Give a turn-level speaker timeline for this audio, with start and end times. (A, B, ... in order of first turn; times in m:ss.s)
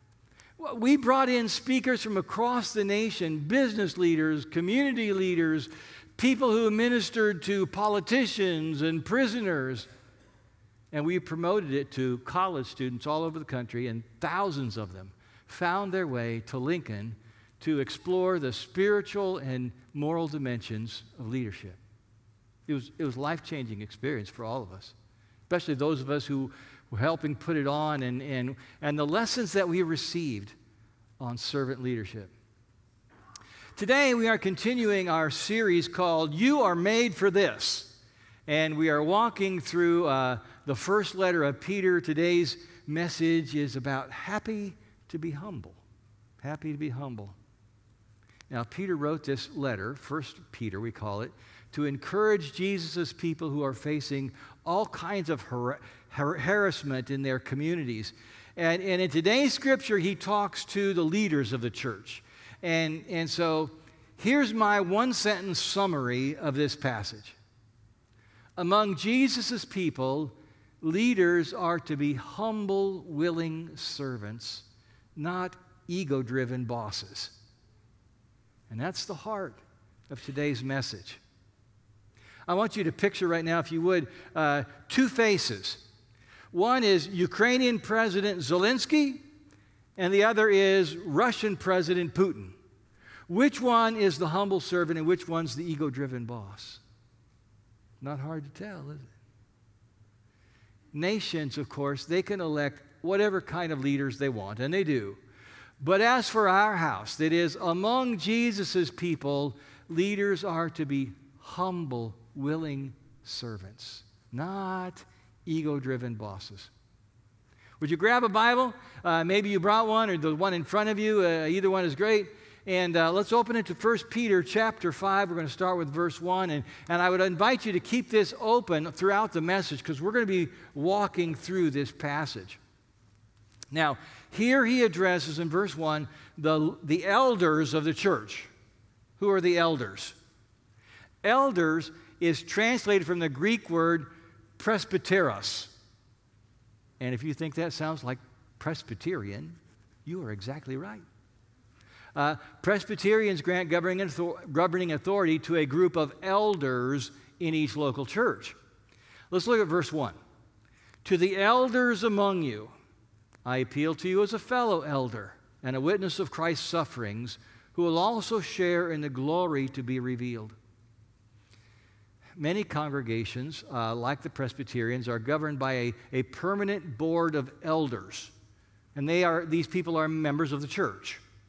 0:00.6-0:09.9 A
0:10.9-0:21.8 A
0:22.7-0:24.9 A
0:25.5-0:30.5 A
0:31.2-0:32.3 A
0:33.8-0:45.8 A
0:46.4-0:47.3 A
0:48.5-1:07.4 A
1:08.6-1:17.3 A
1:18.7-1:21.2 A
1:22.5-1:25.8 A
1:26.5-1:29.2 A
1:30.0-1:32.5 A
1:33.3-1:36.8 A
1:38.0-1:39.1 A
1:40.9-1:45.2 A
1:45.8-1:56.7 A
1:57.8-2:12.6 A
2:13.7-2:18.5 A
2:19.2-2:20.2 A
2:21.2-2:25.7 A
2:27.0-2:31.0 A
2:32.1-2:38.6 A
2:39.3-2:40.2 A
2:41.0-2:42.7 A
2:43.4-2:50.6 A
2:52.4-2:58.3 A
2:58.9-3:01.2 A